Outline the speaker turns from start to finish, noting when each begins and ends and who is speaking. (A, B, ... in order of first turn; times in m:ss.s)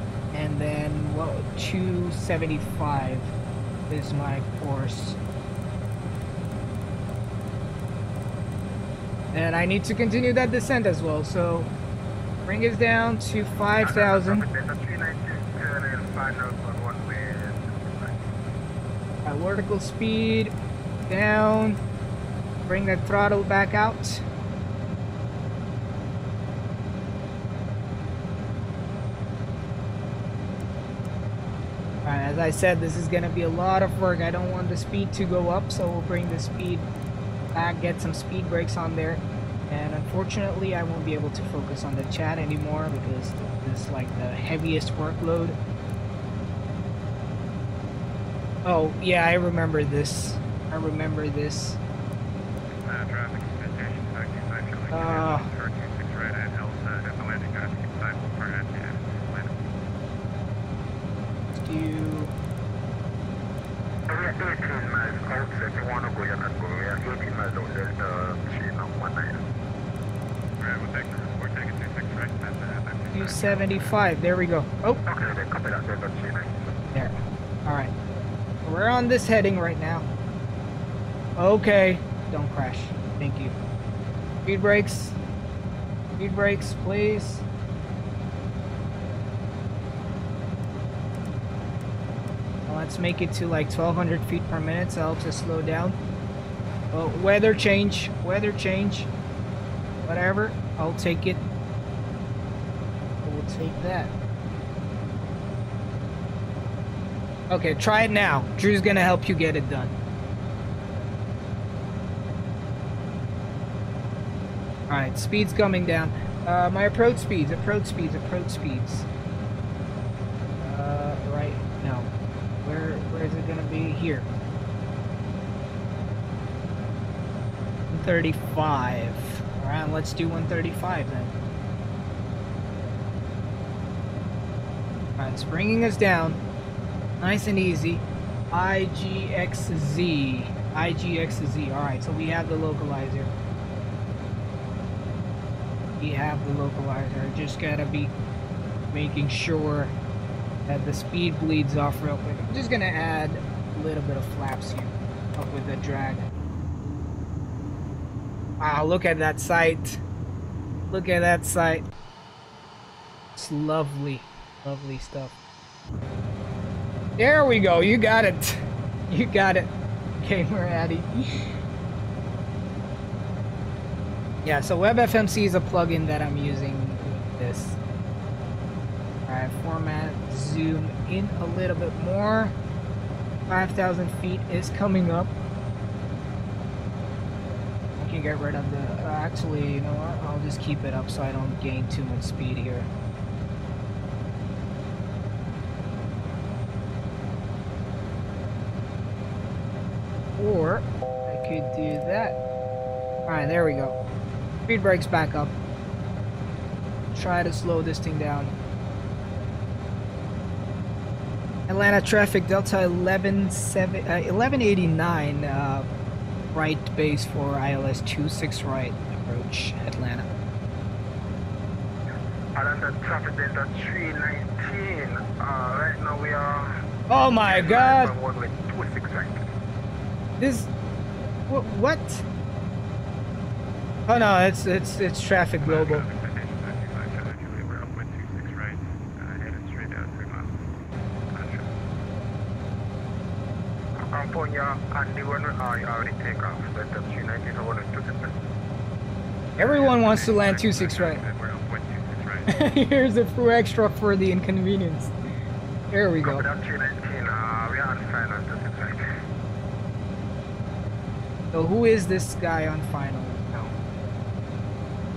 0:00.3-0:03.3 A
0:03.9-0:05.2 A
0:09.3-0:11.7 A
0:12.5-0:14.5 A
0:13.8-0:18.2 B
0:19.2-0:20.5 A
0:21.1-0:21.8 A
0:22.7-0:24.2 A
0:32.0-0:36.9 A
0:37.5-0:45.6 A
0:48.6-0:51.8 A
0:52.7-0:59.6 C
0:54.9-0:55.5 A
1:01.5-1:02.3 A
1:04.1-1:09.5 B
1:10.6-1:14.0 C
1:13.1-1:15.0 A
1:15.0-1:16.6 B
1:16.9-1:17.9 A
1:18.6-1:20.1 A
1:21.4-1:23.6 A
1:24.4-1:25.2 A
1:26.2-1:27.4 A
1:32.7-1:36.0 A
1:36.9-1:39.1 A
1:40.1-1:41.4 A
1:43.2-1:44.1 A
1:47.5-1:50.0 A
1:54.9-1:59.1 A
2:00.6-2:02.1 A
2:02.6-2:04.3 A
2:07.9-2:11.3 A
2:15.2-2:16.4 A
2:17.2-2:23.3 A
2:26.0-2:28.1 A
2:28.9-2:29.9 A
2:30.7-2:36.3 A
2:38.6-2:40.0 A
2:40.9-2:41.9 A
2:43.4-2:45.4 A
2:47.2-2:51.5 A
2:54.4-2:57.8 A
2:59.3-3:02.6 A
3:03.5-3:05.4 A
3:08.0-3:12.9 A
3:20.4-3:22.4 A
3:23.3-3:24.0 A
3:24.7-3:25.5 A
3:27.1-3:28.5 A
3:31.7-3:35.9 A
3:36.5-3:40.3 A
3:42.6-3:46.8 B
3:47.1-3:48.1 A
3:47.4-3:49.5 B
3:50.4-3:50.7 A
3:51.5-3:52.2 A
3:54.1-3:56.0 A
3:55.6-4:00.6 C
4:01.3-4:01.7 C
4:04.0-4:08.3 B
4:09.6-4:12.7 C
4:09.6-4:11.2 A
4:12.5-4:15.1 A
4:15.9-4:16.4 A
4:16.2-4:19.0 B
4:21.5-4:23.8 A